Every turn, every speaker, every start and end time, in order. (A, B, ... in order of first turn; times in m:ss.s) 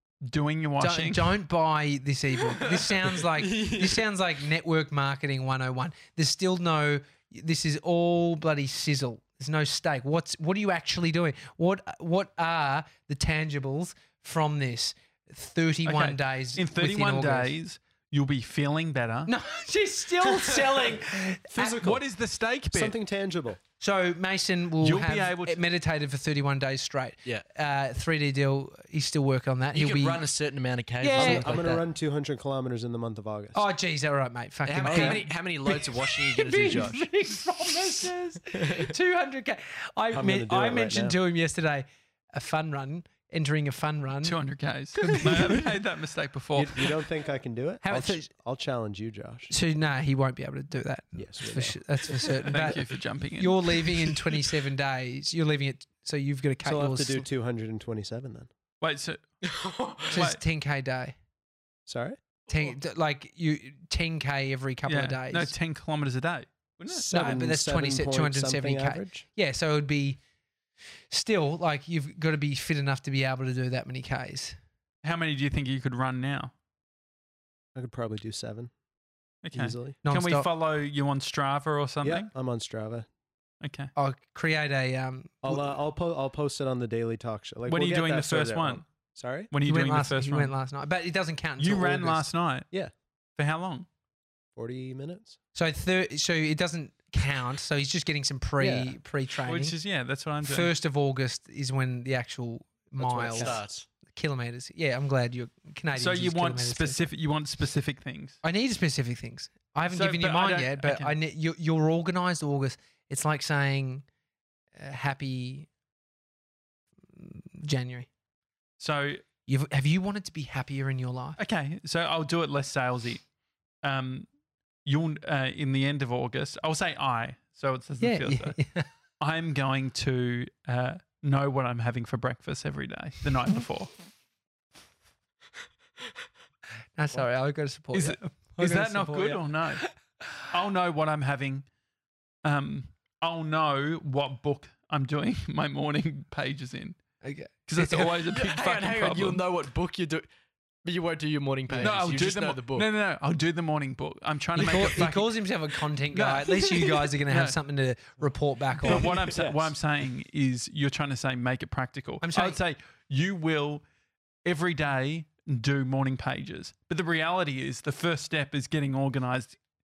0:00.2-0:01.3 A
0:00.8-0:17.5 B
0:02.7-0:04.0 C
0:15.8-0:19.3 A
0:19.2-0:21.9 B
0:21.5-0:22.0 D
0:21.7-0:23.0 A
0:22.7-0:23.6 D
0:23.8-0:30.2 B
0:24.8-0:25.6 A
0:29.7-0:31.8 C
0:31.0-0:31.8 B
0:31.1-0:33.6 D
0:33.5-0:44.4 B
0:34.6-0:37.1 C
0:34.8-0:35.2 D
0:38.6-0:38.9 C
0:40.1-0:41.2 D
0:44.2-0:46.8 A
0:45.0-0:45.8 B
0:46.6-0:49.5 D
0:47.8-0:48.3 B
0:49.5-0:57.3 B
0:51.2-0:51.8 D
0:52.4-0:53.8 A
0:56.6-0:58.5 D
0:58.8-0:59.2 A
0:59.4-1:00.2 C
1:00.1-1:01.2 B
1:00.1-1:00.4 A
1:01.9-1:02.2 D
1:02.5-1:05.5 B
1:04.9-1:07.4 A
1:06.9-1:10.2 B
1:06.9-1:09.2 D
1:11.1-1:14.6 B
1:15.0-1:16.5 A
1:17.7-1:18.7 D
1:19.4-1:22.3 A
1:19.5-1:20.0 D
1:20.0-1:20.5 B
1:22.0-1:23.1 D
1:23.6-1:23.9 A
1:23.9-1:25.7 B
1:25.4-1:29.5 D
1:27.7-1:28.8 A
1:29.5-1:30.5 A
1:29.6-1:32.2 B
1:31.6-1:32.7 A
1:33.4-1:33.8 A
1:34.6-1:35.4 D
1:35.5-1:39.7 B
1:38.6-1:38.9 D
1:39.4-1:40.7 A
1:40.4-1:47.1 B
1:43.0-1:43.7 D
1:43.3-1:43.8 C
1:45.9-1:48.4 A
1:48.4-1:54.0 B
1:49.9-1:51.2 A
1:54.7-1:55.7 B
1:57.1-1:58.1 B
1:58.8-1:59.2 A
1:59.5-2:01.4 B
2:01.4-2:03.2 A
2:03.8-2:04.3 A
2:04.8-2:08.6 A
2:08.0-2:08.9 B
2:09.2-2:13.9 A
2:17.0-2:19.9 B
2:17.9-2:19.8 A
2:20.5-2:21.7 A
2:22.4-2:27.0 A
2:27.2-2:28.2 B
2:27.7-2:29.4 A
2:28.2-2:30.3 C
2:30.8-2:32.9 C
2:31.8-2:35.3 A
2:34.5-2:39.1 B
2:36.1-2:37.6 A
2:36.7-2:37.1 C
2:38.8-2:43.8 A
2:39.0-2:39.7 D
2:42.2-2:42.6 B
2:44.4-2:49.6 A